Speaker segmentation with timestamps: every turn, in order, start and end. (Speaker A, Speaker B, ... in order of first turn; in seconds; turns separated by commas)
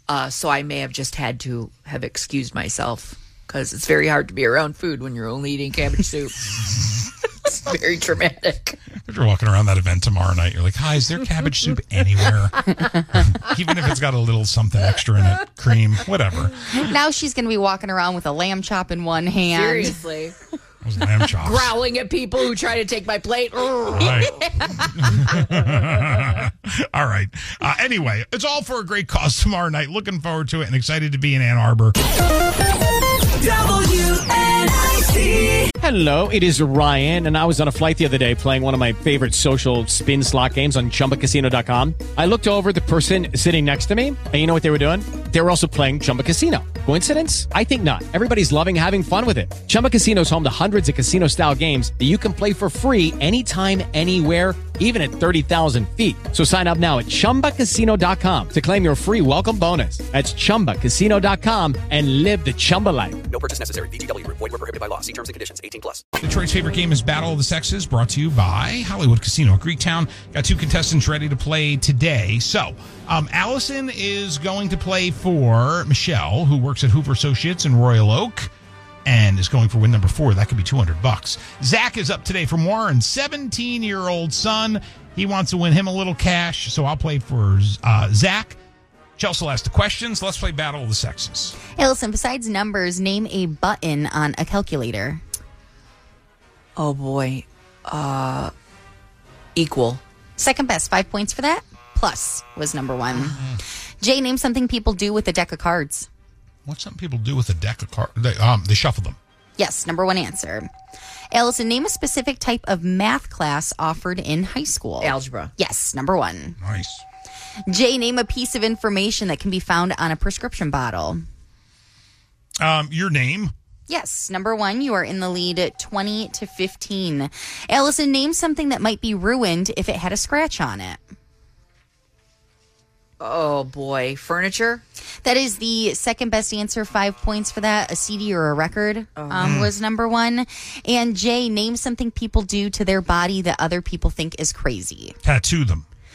Speaker A: 0.1-6.5, Speaker A: 7.4-8.8, Speaker B: 9.1-16.7, Speaker C: 16.7-20.0, Speaker A: 19.5-20.4, Speaker B: 20.8-21.7, Speaker A: 21.4-24.3, Speaker B: 23.9-32.0, Speaker D: 35.8-63.2, Speaker E: 63.3-66.0, Speaker B: 66.2-78.5, Speaker B: 79.0-88.6, Speaker B: 89.2-91.6, Speaker C: 91.8-95.2, Speaker A: 96.8-98.5, Speaker A: 99.6-100.0, Speaker C: 100.4-103.4, Speaker C: 104.0-106.1, Speaker B: 106.7-109.2, Speaker C: 109.6-110.7, Speaker C: 111.3-116.6, Speaker A: 115.0-115.5, Speaker B: 116.6-117.0, Speaker C: 117.7-121.2, Speaker B: 122.6-123.5, Speaker C: 123.9-131.0, Speaker A: 133.2-134.8, Speaker C: 135.2-145.2, Speaker A: 139.2-139.6, Speaker B: 139.4-139.7, Speaker B: 145.2-145.8